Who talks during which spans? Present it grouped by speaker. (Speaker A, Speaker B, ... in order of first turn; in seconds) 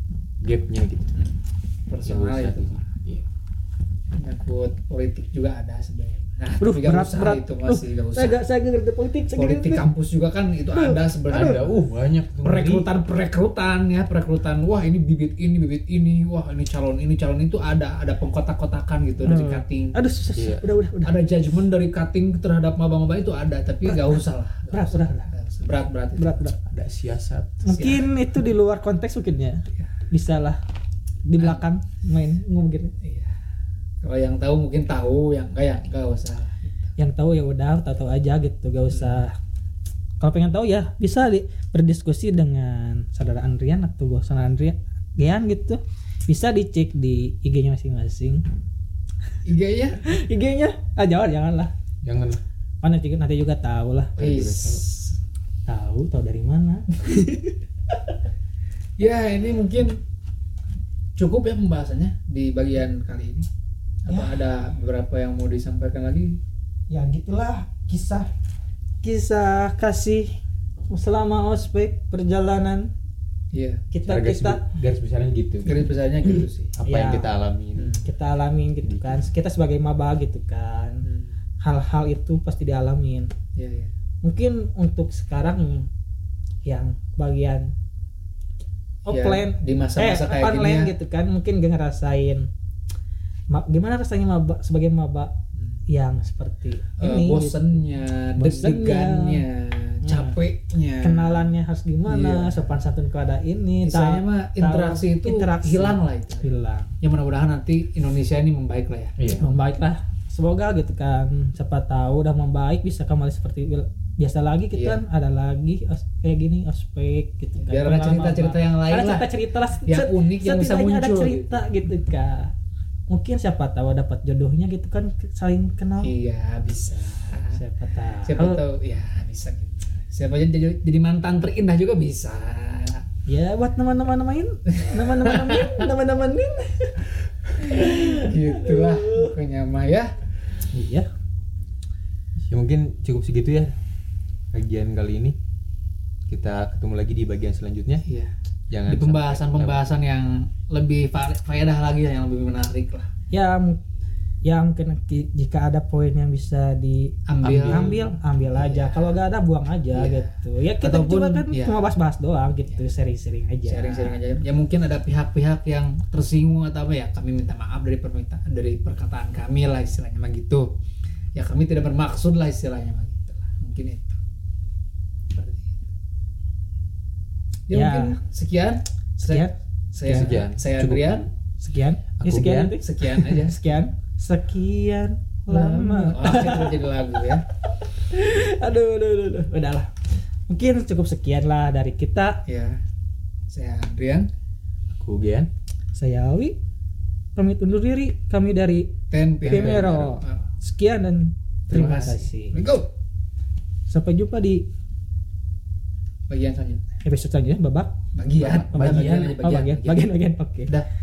Speaker A: 0.4-1.1, 2.0-3.2, 11.3-12.9, 20.4-20.7, 26.6-27.6, 52.0-52.4, 54.2-54.8, 74.0-75.9, 76.8-77.9, 78.8-79.2, 109.2-109.5, 142.5-143.8, 144.5-145.4, 146.3-148.0, 148.7-149.8, 157.4-158.0, 180.1-181.3, 182.2-182.8, 194.9-195.5, 199.4-200.1, 208.6-209.3
Speaker B: 1.9-2.8, 4.2-8.4, 9.3-11.8, 12.4-19.9, 21.0-26.5, 27.7-28.1, 31.4-31.6, 33.0-33.3, 34.0-36.9, 38.9-39.2, 49.4-50.0, 54.2-55.2, 59.0-60.0, 61.1-63.5, 64.0-66.4, 73.5-73.8, 75.6-76.8, 77.8-78.0, 81.0-81.4, 83.5-83.9, 89.1-90.9, 95.5-95.8, 97.0-101.5, 102.0-102.7, 103.8-106.5, 107.0-109.1, 114.7-115.0, 117.6-119.3, 119.9-121.7, 126.0-127.6, 128.2-133.0, 134.9-135.9, 137.6-140.1, 148.0-148.3, 148.9-153.1, 157.2-159.2, 159.9-161.9, 163.6-170.7, 171.3-174.2, 175.3-175.9, 177.7-181.3, 182.8-183.8, 185.5-187.4, 192.4-192.8, 193.5-194.3, 199.1-200.4, 201.7-202.9, 206.3-206.8, 208.1-210.1
Speaker C: 6.6-9.8, 10.7-11.7, 19.2-21.1, 23.9-24.1, 24.7-25.3, 26.2-26.6, 27.6-30.6, 31.2-32.9, 37.0-39.3, 40.2-48.4, 50.0-51.7, 52.8-54.2, 55.7-57.5, 64.1-64.4, 66.9-68.3, 69.0-70.3, 70.9-72.9, 73.9-74.7, 76.9-77.3, 78.0-81.0, 81.6-83.3, 84.2-85.9, 86.7-87.7, 89.0-92.5, 93.5-95.3, 95.9-97.5, 98.4-99.4, 100.0-100.4, 101.0-106.9, 109.4-122.5, 123.1-126.1, 127.5-128.6, 133.3-137.0, 137.6-139.3, 140.7-141.1, 153.3-153.8, 154.4-164.2, 177.7-178.2, 179.2-179.5, 180.1-180.3, 181.6-186.8, 187.8-189.9, 190.5-192.4, 195.9-196.5, 197.4-198.9, 199.5-202.6, 203.9-204.6, 207.0-210.7